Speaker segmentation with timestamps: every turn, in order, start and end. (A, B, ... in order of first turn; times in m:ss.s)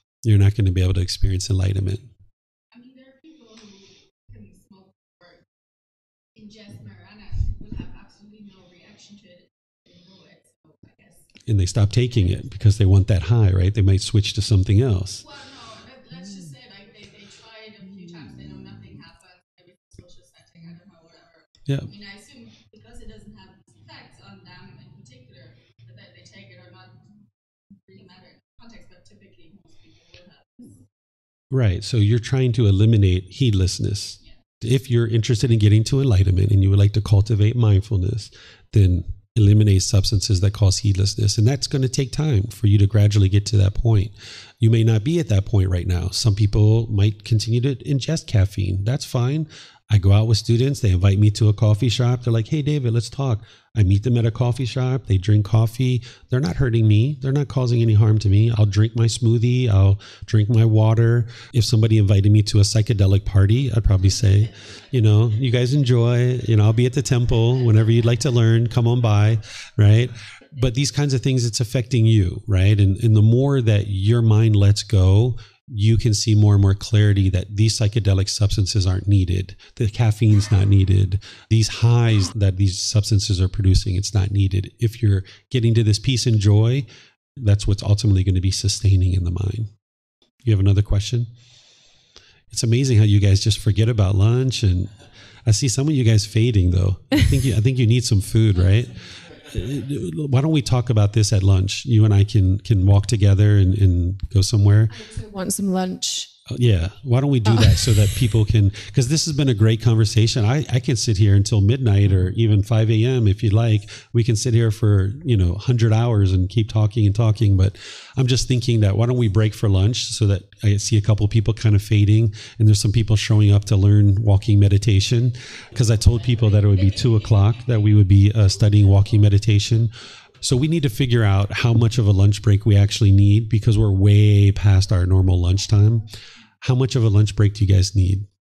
0:00.2-0:02.1 A
0:02.7-0:05.4 B
0:06.3-0:11.3 B
0:11.4-0:15.2 A
0:15.2-0:27.2 B
0:27.7-0:30.8 B
0:31.5-1:29.7 A
1:30.4-1:31.3 A
1:32.5-1:34.9 A
1:35.4-1:44.9 A
1:44.9-1:46.3 C
1:46.5-2:16.1 A
1:47.4-1:47.9 C
2:16.6-2:18.3 A